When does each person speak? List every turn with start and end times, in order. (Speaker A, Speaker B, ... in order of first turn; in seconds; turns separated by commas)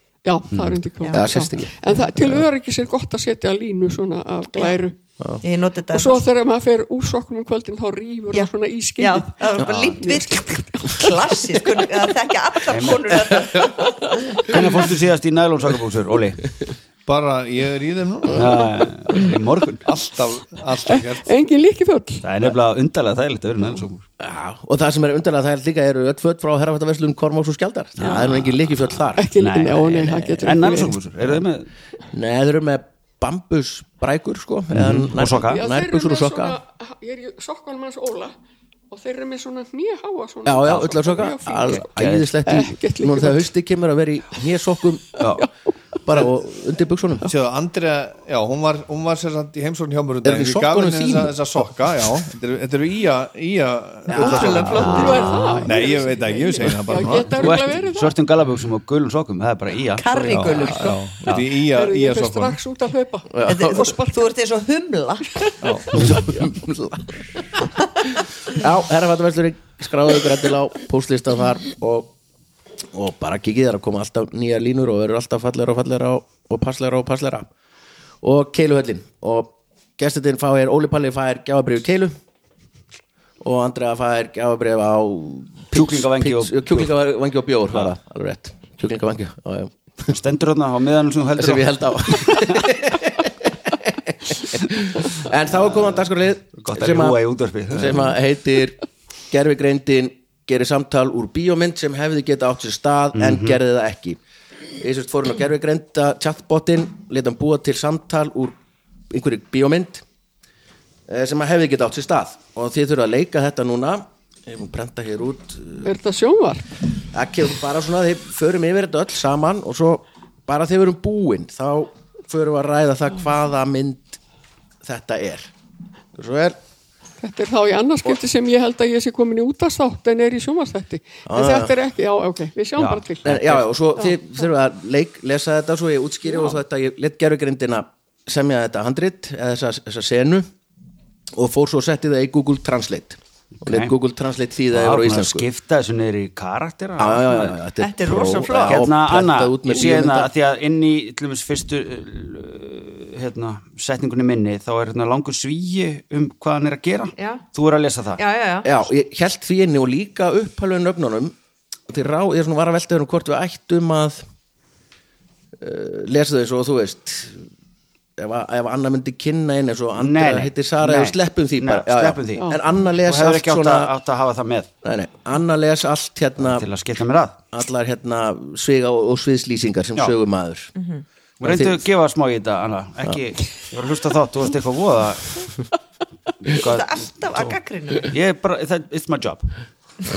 Speaker A: 0.2-5.0, Speaker B: 0.5-0.8, Speaker C: 1.0-1.3, Speaker D: 1.1-2.4, Speaker C: 5.4-6.2, Speaker A: 5.9-11.8, Speaker C: 8.3-13.9, Speaker B: 12.7-13.4, Speaker A: 13.9-14.6, Speaker B: 14.4-16.4, Speaker E: 17.1-18.9, Speaker B: 18.3-19.9, Speaker E: 19.9-21.3, Speaker A: 20.9-22.3, Speaker B: 22.2-24.0, Speaker D: 24.2-29.3, Speaker B: 28.0-28.6, Speaker A: 29.2-31.0, Speaker B: 29.4-31.7, Speaker D: 30.0-30.6, Speaker D: 32.1-36.6, Speaker B: 34.7-35.6, Speaker A: 35.5-38.4, Speaker A: 38.9-41.9, Speaker D: 40.5-45.2, Speaker B: 41.7-42.3, Speaker A: 42.5-43.5, Speaker B: 45.2-45.5, Speaker A: 45.3-45.7, Speaker D: 46.0-47.3, Speaker E: 47.3-55.0, Speaker D: 50.2-52.1, Speaker D: 54.1-55.2, Speaker C: 54.2-55.2, Speaker A: 54.3-58.1, Speaker B: 54.5-55.8, Speaker E: 55.6-57.6, Speaker B: 57.4-60.7, Speaker C: 60.0-61.0, Speaker E: 60.3-62.6, Speaker A: 61.6-64.0, Speaker D: 63.4-63.9, Speaker C: 63.5-65.4, Speaker E: 65.6-66.1, Speaker D: 65.9-72.1, Speaker D: 72.9-77.5, Speaker D: 78.2-82.2, Speaker D: 83.4-90.2, Speaker B: 85.7-86.9, Speaker B: 90.1-92.7, Speaker D: 91.4-104.2, Speaker B: 95.7-96.0, Speaker B: 96.6-98.2, Speaker B: 103.2-103.6, Speaker D: 104.8-108.6, Speaker D: 109.1-110.0, Speaker D: 111.1-115.9, Speaker A: 115.8-116.7, Speaker D: 117.1-124.2, Speaker D: 124.8-125.5, Speaker D: 126.2-126.6, Speaker A: 127.2-133.3, Speaker D: 131.3-131.8, Speaker B: 132.8-133.7, Speaker D: 133.2-140.5, Speaker D: 141.3-145.5, Speaker B: 143.6-143.9, Speaker B: 144.7-147.6, Speaker D: 147.0-150.3, Speaker C: 147.8-148.9, Speaker B: 148.1-158.2, Speaker C: 157.2-157.4, Speaker C: 158.2-158.7, Speaker D: 158.7-161.3, Speaker D: 161.9-164.2, Speaker D: 165.6-167.4, Speaker D: 168.2-173.9, Speaker B: 170.0-174.7, Speaker A: 172.4-172.6, Speaker D: 174.8-176.7, Speaker B: 176.4-177.4, Speaker D: 177.5-180.7, Speaker C: 180.8-181.0, Speaker B: 181.4-185.5, Speaker D: 181.4-181.8, Speaker B: 186.4-189.5, Speaker C: 186.5-188.1